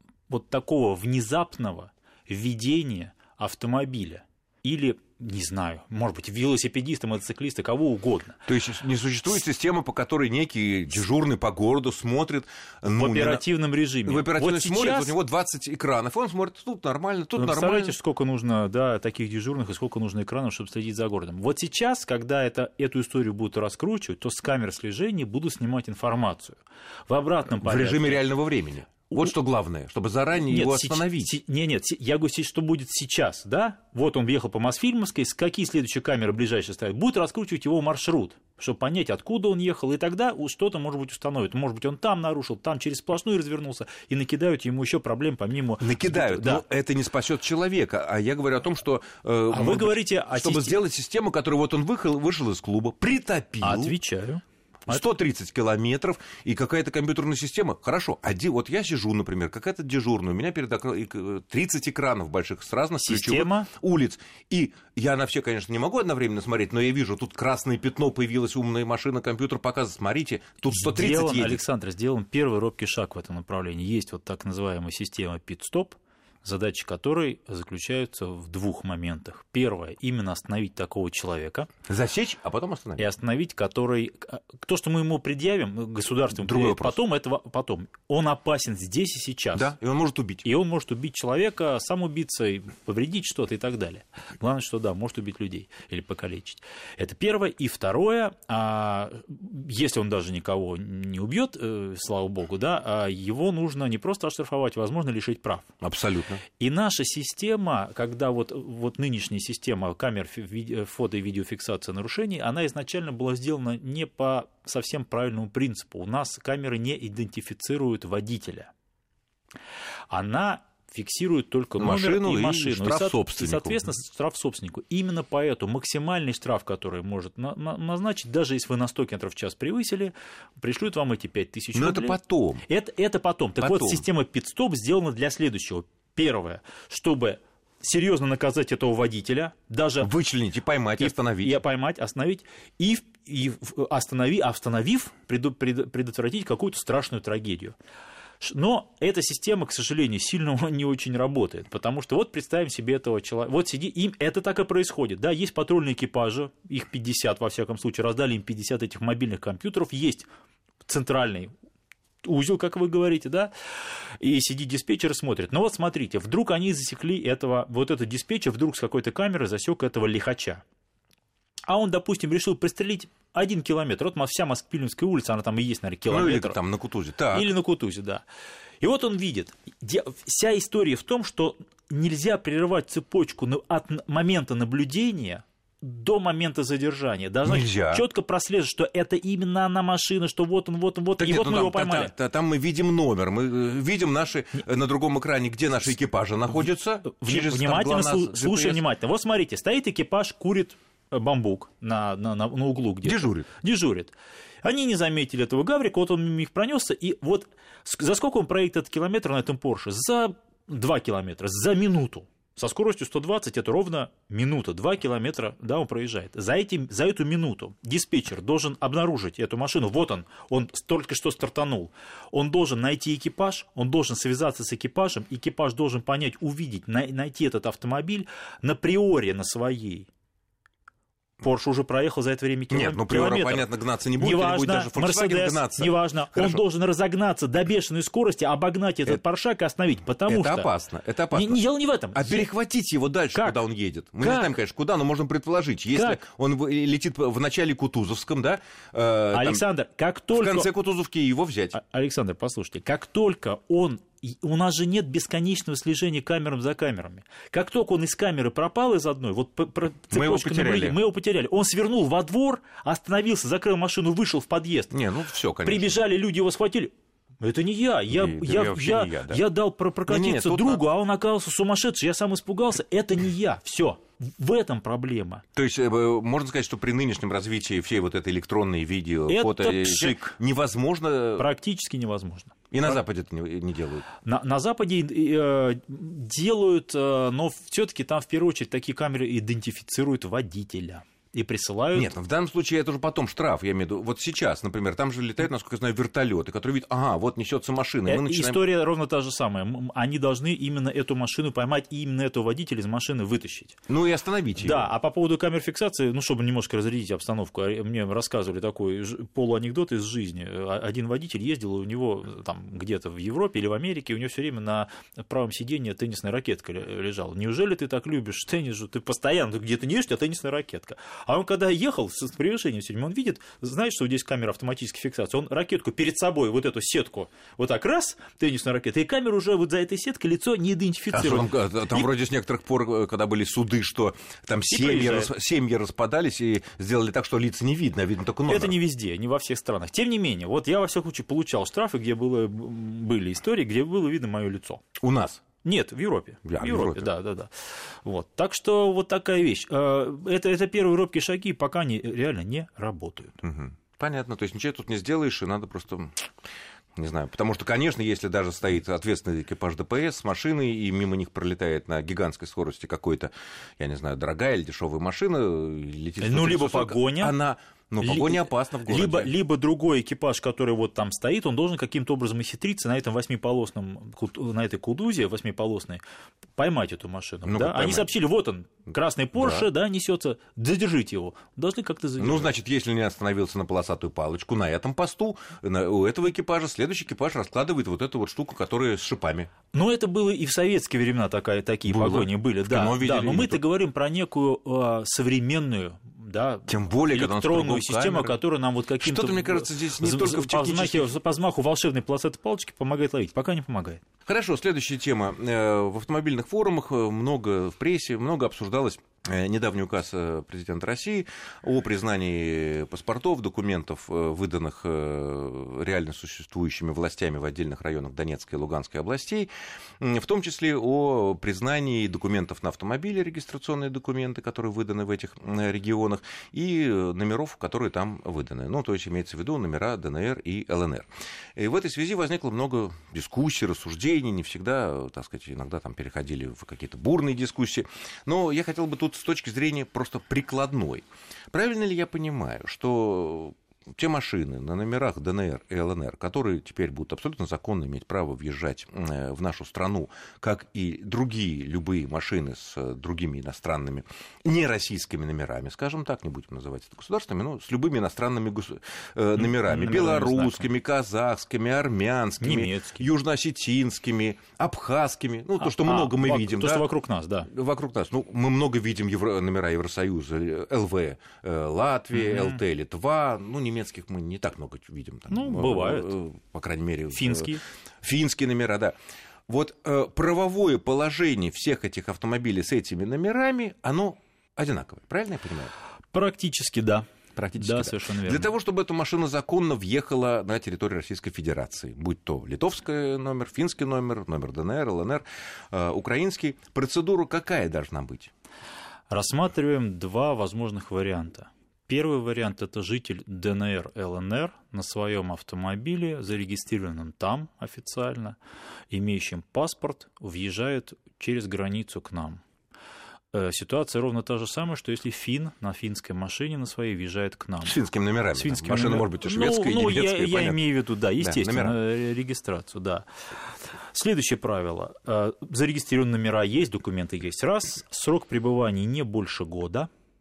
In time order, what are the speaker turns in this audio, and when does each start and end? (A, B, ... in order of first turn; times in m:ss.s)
0:00.3-0:08.4 A
0:08.5-0:13.4 B
0:12.9-0:15.2 A
0:14.1-0:18.0 B
0:17.4-0:28.2 A
0:27.6-0:31.3 B
0:30.3-0:46.6 A
0:45.8-0:53.9 B
0:49.5-0:50.8 A
0:53.6-0:55.0 A
0:54.9-1:11.6 B
1:03.0-1:03.7 A
1:10.7-1:21.7 A
1:21.9-1:23.0 B
1:23.0-1:29.7 A
1:26.4-1:27.0 B
1:29.5-1:30.5 B
1:30.4-1:45.7 A
1:45.8-1:46.4 B
1:46.6-1:58.7 A
2:00.1-2:20.1 A
2:01.8-2:03.9 B
2:11.7-2:12.6 B
2:13.6-2:14.0 B
2:20.0-2:21.6 B
2:21.0-2:27.7 A
2:28.4-2:40.3 A
2:40.8-2:41.5 A
2:42.2-2:43.5 A
2:44.2-2:50.6 A
2:51.7-2:56.6 A
2:56.1-2:57.5 B
2:57.3-2:58.2 A
2:58.8-3:12.1 A
3:07.4-3:08.0 B
3:11.2-3:18.8 B
3:17.0-3:50.1 A
3:23.0-3:23.5 B
3:51.4-4:00.7 A
3:52.7-3:56.6 B
4:00.3-4:01.6 B
4:01.3-4:02.5 A
4:02.1-4:09.6 B
4:03.3-4:03.6 A
4:04.2-4:04.5 A
4:05.9-4:06.2 A
4:09.3-4:10.7 A
4:10.3-4:11.7 B
4:11.7-4:24.9 A
4:20.1-4:21.0 B
4:24.9-4:26.0 B
4:25.6-4:35.4 A
4:28.1-4:29.4 B
4:30.1-4:30.8 B
4:35.6-4:41.5 B
4:39.3-4:40.4 A
4:41.4-4:42.9 A
4:42.7-4:44.1 B
4:44.2-4:52.1 A
4:51.9-4:58.6 B
4:58.1-5:03.8 A
5:03.9-5:04.9 B
5:04.6-5:32.1 A
5:31.1-5:38.8 B
5:34.7-5:35.3 A
5:38.5-5:44.8 A
5:45.0-5:45.4 B
5:45.6-5:53.4 A
5:46.5-5:47.1 B
5:53.4-5:56.3 B
5:57.0-6:09.3 B
6:06.2-6:07.4 A
6:08.0-6:16.0 A
6:16.6-6:22.5 A
6:17.5-6:18.1 B
6:19.4-6:19.7 B
6:22.2-6:29.5 B
6:29.7-6:44.0 A
6:31.9-6:33.6 B
6:36.7-6:38.4 B
6:39.0-6:41.1 B
6:44.3-7:46.9 B
7:39.4-7:40.7 A
7:42.4-7:43.1 A
7:45.6-7:47.5 A
7:47.5-7:57.5 B
7:52.1-7:52.6 A
7:55.3-7:56.1 A
7:57.1-7:57.6 A
7:58.0-7:59.0 B
7:59.5-8:05.7 B
8:06.1-8:08.5 A
8:07.4-8:18.3 B
8:19.1-8:28.4 A
8:28.9-8:32.4 A
8:33.3-8:37.8 A
8:37.6-8:41.8 B
8:38.3-8:43.1 A
8:43.9-8:49.9 A